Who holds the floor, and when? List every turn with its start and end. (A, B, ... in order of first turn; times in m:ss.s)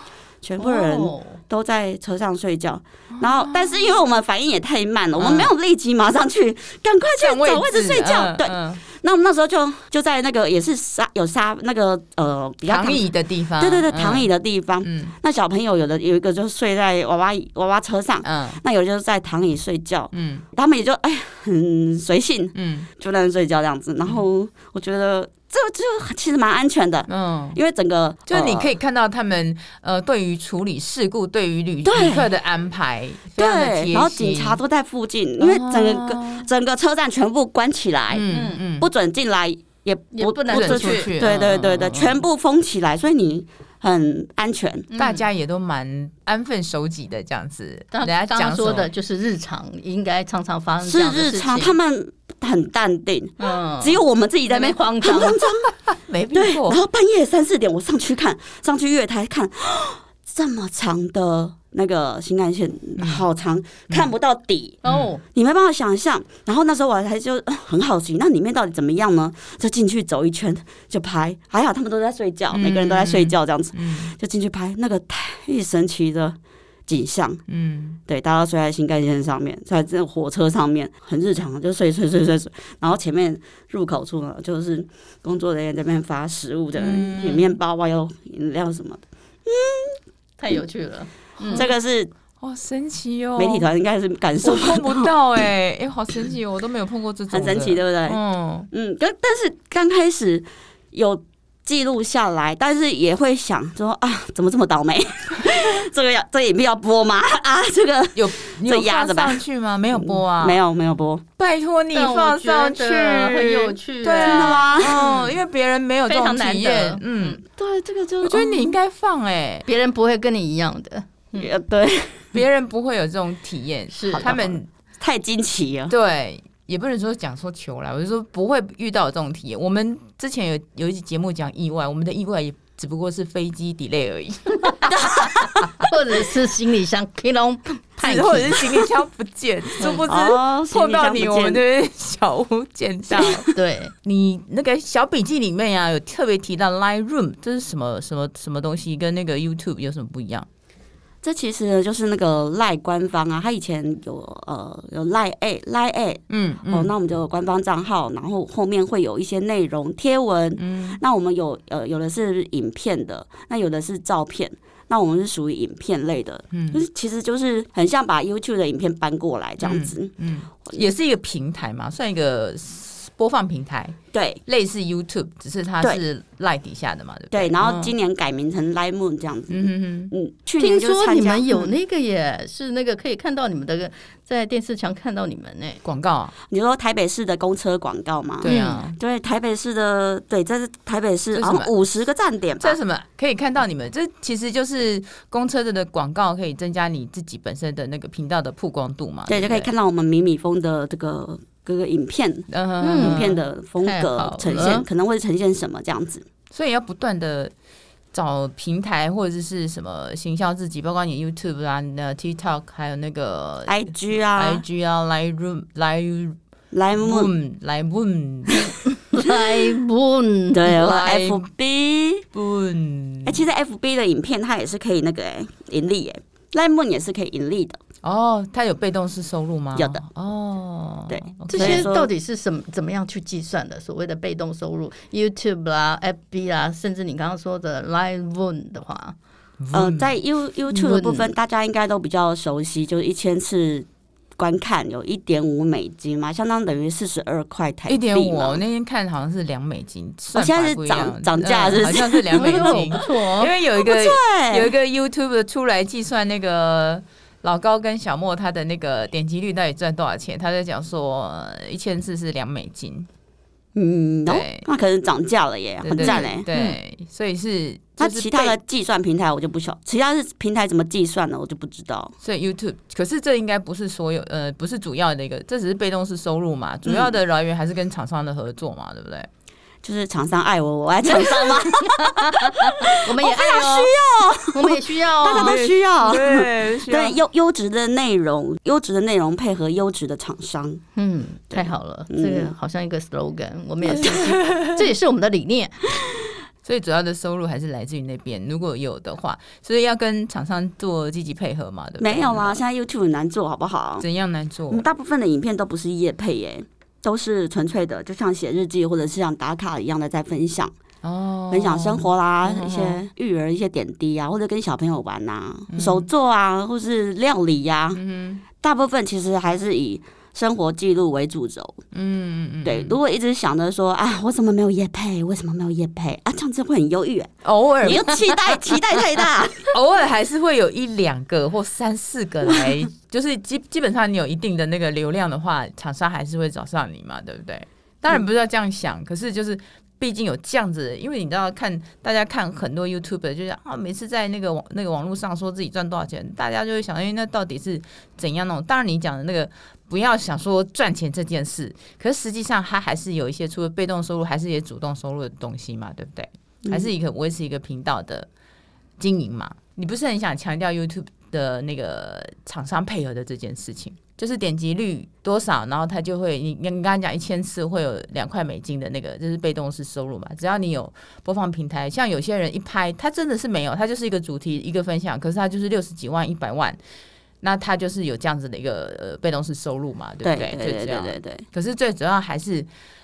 0:00.4-0:13.1 A
0:00.6-0:01.4 B
0:03.2-0:03.9 C
0:05.2-0:05.5 C
0:07.2-0:08.8 C
0:12.7-0:14.3 C
0:13.6-0:28.7 A
0:14.8-0:15.1 C
0:18.2-0:18.6 C
0:20.1-0:20.4 C
0:22.5-0:22.9 C
0:27.1-0:27.6 C
0:28.3-0:34.6 C
0:31.8-0:32.3 A
0:33.4-0:44.9 A
0:35.4-0:36.5 C
0:38.1-0:38.9 C
0:38.3-0:38.6 B
0:40.1-0:41.1 B
0:40.5-0:42.2 C
0:44.9-0:45.2 B
0:45.0-0:48.9 C
0:47.9-0:51.7 B
0:50.8-0:55.7 A
0:53.4-0:55.4 B
0:55.9-0:56.8 C
0:56.3-1:04.8 A
1:03.0-1:03.2 C
1:04.8-1:05.2 B
1:04.8-1:05.1 C
1:05.3-1:17.4 A
1:12.5-1:14.1 C
1:17.5-1:18.0 C
1:18.1-1:30.0 A
1:26.8-1:27.6 C
1:30.4-1:31.7 B
1:31.5-1:32.1 A
1:32.4-1:33.6 C
1:33.4-1:35.1 A
1:34.4-1:38.7 C
1:37.3-1:38.2 A
1:38.7-1:49.4 A
1:48.2-1:50.6 C
1:49.9-1:51.2 A
1:51.4-1:57.4 C
1:51.9-1:55.4 B
1:54.2-1:55.0 A
1:56.1-1:57.4 B
1:57.4-1:58.8 A
1:58.2-1:59.6 C
1:59.6-2:01.5 B
2:01.4-2:02.3 A
2:02.3-2:04.7 C
2:03.9-2:04.3 B
2:04.2-2:05.9 A
2:05.9-2:15.9 C
2:14.9-2:15.7 A
2:15.7-2:18.9 B
2:18.0-2:23.5 C
2:20.0-2:21.6 A
2:23.1-2:23.4 A
2:23.5-2:23.9 B
2:24.0-2:30.4 C
2:31.2-2:50.1 A
2:36.3-2:36.9 C
2:40.6-2:41.0 C
2:46.5-2:46.8 C
2:49.6-2:57.9 C
2:54.1-2:54.4 A
2:57.3-3:01.6 A
2:59.5-3:00.1 C
3:00.6-3:05.8 B
3:05.8-3:06.3 C
3:06.5-3:12.8 A
3:08.4-3:09.0 C
3:08.4-3:08.8 B
3:11.3-3:11.7 C
3:12.6-3:19.7 C
3:19.3-3:26.2 A
3:22.5-3:23.4 C
3:22.8-3:23.3 B
3:23.8-3:24.8 B
3:24.4-3:24.8 C
3:26.5-3:27.5 C
3:28.1-3:33.8 C
3:33.7-3:34.6 A
3:34.3-3:36.4 C
3:36.7-3:37.3 A
3:36.9-3:38.8 C
3:39.1-3:40.8 B
3:40.5-3:42.3 A
3:40.7-3:41.4 C
3:42.3-3:43.4 C
3:43.2-3:47.8 A
3:48.0-3:51.9 C
3:49.7-3:50.0 A
3:51.1-3:52.1 A
3:51.5-3:59.2 B
3:59.6-4:00.1 C
3:59.7-4:08.6 A
4:00.7-4:01.3 B
4:07.9-4:23.1 C
4:10.3-4:13.0 A
4:12.3-4:13.5 B
4:13.8-4:14.7 A
4:23.7-4:26.4 A
4:24.2-4:24.6 C
4:25.8-4:28.6 C
4:26.0-4:26.8 B
4:28.0-4:32.1 A
4:32.2-4:39.3 C
4:36.8-4:37.2 A
4:39.8-4:50.8 A
4:41.7-4:43.9 B
4:44.5-4:45.6 B
4:45.2-4:47.2 C
4:51.0-4:55.8 B
4:51.5-4:52.5 A
4:53.9-4:54.8 C
4:56.6-5:02.6 C
5:02.0-5:04.0 A
5:04.0-5:04.8 C
5:04.7-5:10.7 A
5:11.0-5:13.0 C
5:11.5-5:18.0 A
5:15.7-5:16.1 C
5:17.9-5:18.4 C
5:18.6-5:21.8 A
5:21.9-5:23.0 C
5:22.6-5:29.7 A
5:27.4-5:28.6 C
5:29.7-5:58.3 C
5:56.6-5:56.9 A
5:59.0-6:16.8 C
6:17.4-6:22.7 C
6:20.2-6:21.4 A